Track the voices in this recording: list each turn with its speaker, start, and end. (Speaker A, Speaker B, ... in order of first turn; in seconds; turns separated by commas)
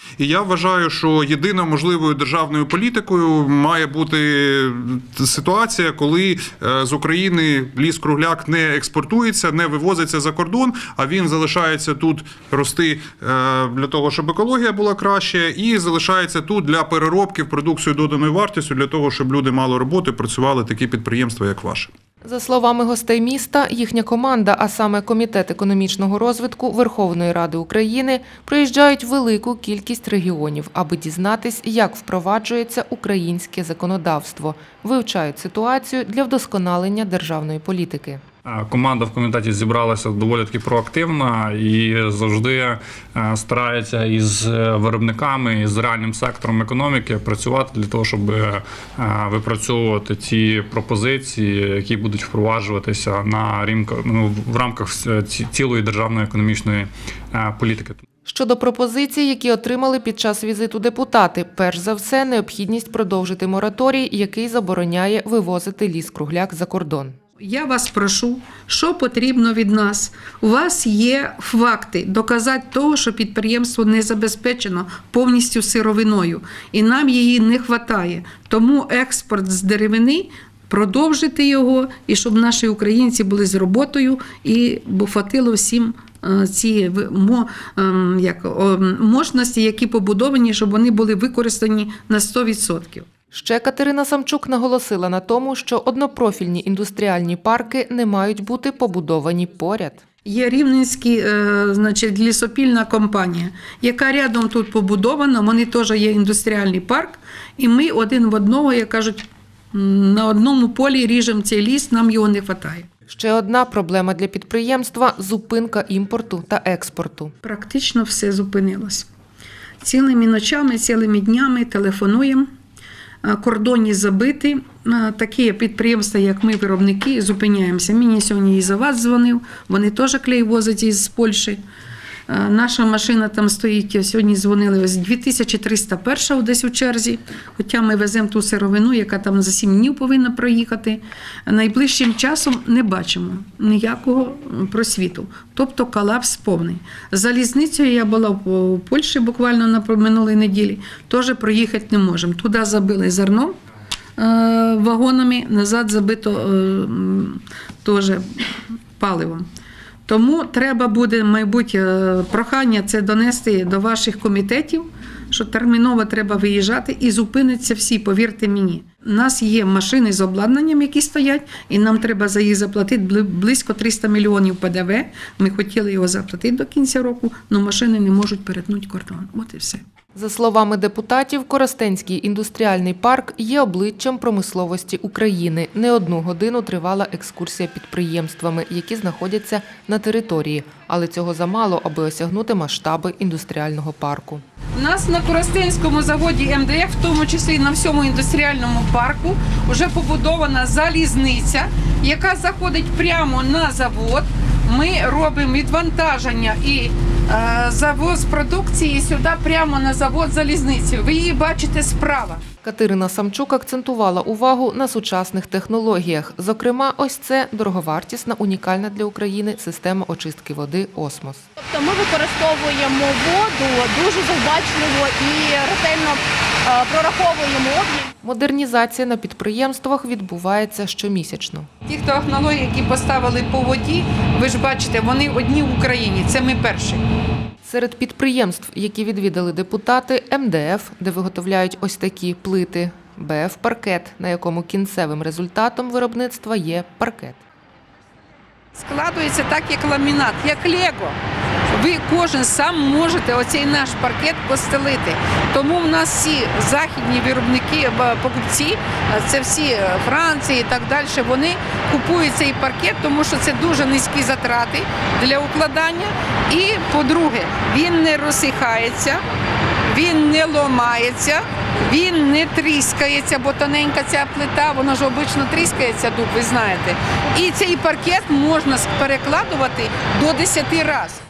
Speaker A: 0.2-21.9, Speaker B: 22.2-38.2, Speaker C: 38.4-58.0, Speaker B: 58.2-67.1, Speaker D: 67.4-93.1, Speaker B: 93.3-100.0, Speaker D: 100.2-112.9, Speaker B: 113.1-117.3, Speaker D: 117.4-119.0, Speaker D: 119.8-122.5, Speaker D: 123.2-131.6, Speaker D: 132.3-153.6, Speaker D: 154.2-159.4, Speaker D: 160.1-179.8, Speaker B: 180.1-194.4, Speaker D: 194.7-212.4, Speaker B: 212.6-221.4, Speaker E: 221.6-226.2, Speaker E: 226.7-228.1, Speaker B: 228.2-231.7, Speaker D: 231.8-237.0, Speaker B: 237.6-247.4, Speaker D: 248.7-251.2, Speaker D: 251.7-269.2, Speaker D: 269.9-281.2